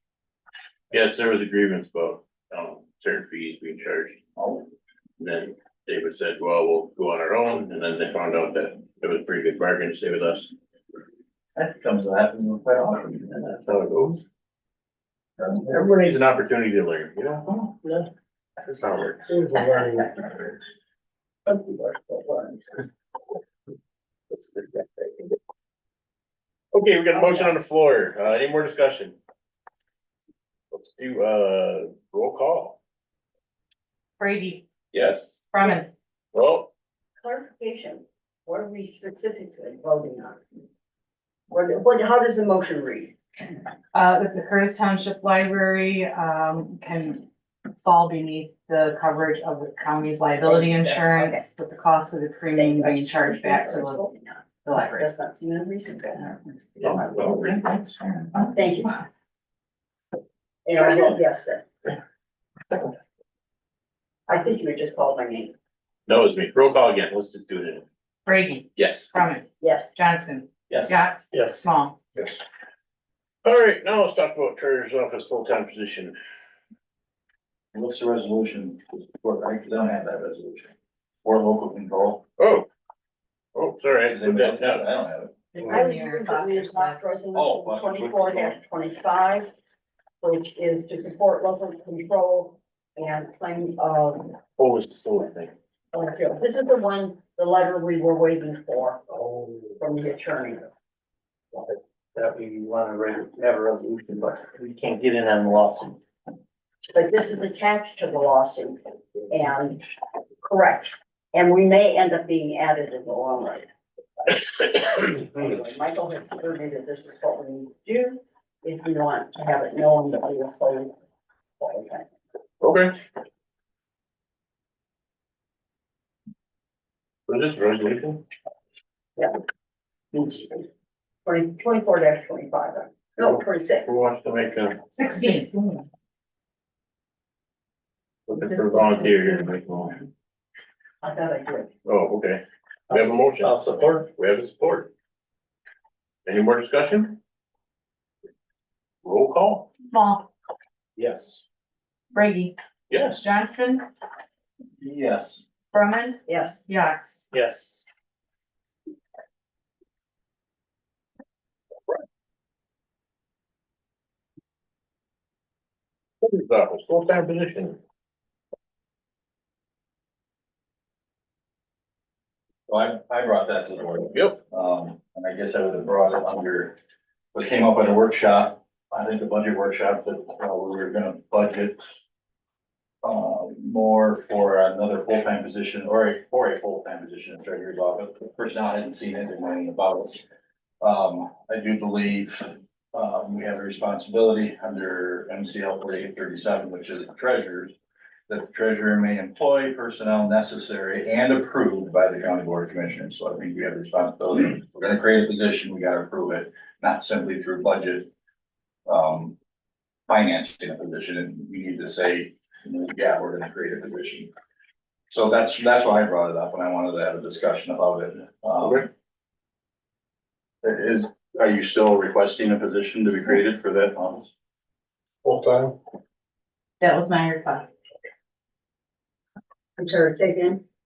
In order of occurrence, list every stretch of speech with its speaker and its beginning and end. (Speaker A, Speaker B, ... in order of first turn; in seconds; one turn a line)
Speaker A: 0.9-4.2
Speaker B: 4.4-4.7
Speaker A: 5.2-10.5
Speaker B: 11.6-13.4
Speaker A: 13.4-14.2
Speaker B: 15.4-15.8
Speaker A: 15.7-18.1
Speaker A: 18.6-19.8
Speaker B: 21.5-22.5
Speaker A: 24.3-25.1
Speaker A: 26.7-29.2
Speaker C: 27.1-27.5
Speaker A: 30.7-32.8
Speaker D: 34.2-34.6
Speaker A: 34.9-35.4
Speaker D: 35.5-35.9
Speaker A: 36.3-36.7
Speaker C: 37.2-40.4
Speaker C: 41.5-43.2
Speaker D: 43.9-47.2
Speaker D: 47.8-54.1
Speaker C: 50.4-51.5
Speaker C: 52.5-57.6
Speaker D: 54.6-55.1
Speaker D: 56.2-58.6
Speaker C: 58.5-59.0
Speaker C: 60.6-61.9
Speaker C: 64.3-65.5
Speaker A: 66.1-67.8
Speaker D: 68.3-72.0
Speaker A: 68.8-69.1
Speaker C: 69.6-69.9
Speaker E: 71.3-71.7
Speaker A: 73.4-76.2
Speaker B: 77.7-80.7
Speaker B: 81.2-82.3
Speaker A: 82.4-82.7
Speaker A: 83.5-84.9
Speaker B: 84.1-85.3
Speaker D: 85.5-87.0
Speaker C: 85.6-89.5
Speaker B: 87.3-88.6
Speaker C: 90.2-94.3
Speaker A: 94.6-95.5
Speaker C: 95.9-99.0
Speaker C: 99.8-100.7
Speaker E: 101.5-106.0
Speaker C: 106.9-109.8
Speaker C: 110.4-113.7
Speaker C: 114.2-121.0
Speaker C: 121.6-122.1
Speaker A: 122.6-122.9
Speaker A: 127.3-128.2
Speaker C: 130.1-130.6
Speaker C: 131.2-133.9
Speaker A: 133.3-134.8
Speaker D: 135.0-135.9
Speaker A: 138.3-140.0
Speaker C: 141.0-141.7
Speaker A: 141.8-144.9
Speaker E: 142.9-144.1
Speaker A: 146.3-147.2
Speaker A: 149.0-149.7
Speaker D: 149.8-150.3
Speaker D: 152.1-152.5
Speaker A: 152.9-153.3
Speaker D: 153.2-153.9
Speaker B: 154.8-155.4
Speaker D: 155.7-157.2
Speaker C: 156.3-156.6
Speaker E: 157.3-157.8
Speaker A: 166.2-167.8
Speaker B: 172.7-176.8
Speaker A: 174.1-174.4
Speaker B: 177.3-181.9
Speaker B: 183.0-190.2
Speaker B: 190.8-197.7
Speaker B: 198.3-208.1
Speaker B: 208.9-209.4
Speaker B: 210.1-214.3
Speaker B: 215.1-218.9
Speaker A: 218.6-218.9
Speaker B: 220.6-224.3
Speaker D: 226.8-227.7
Speaker C: 229.8-230.6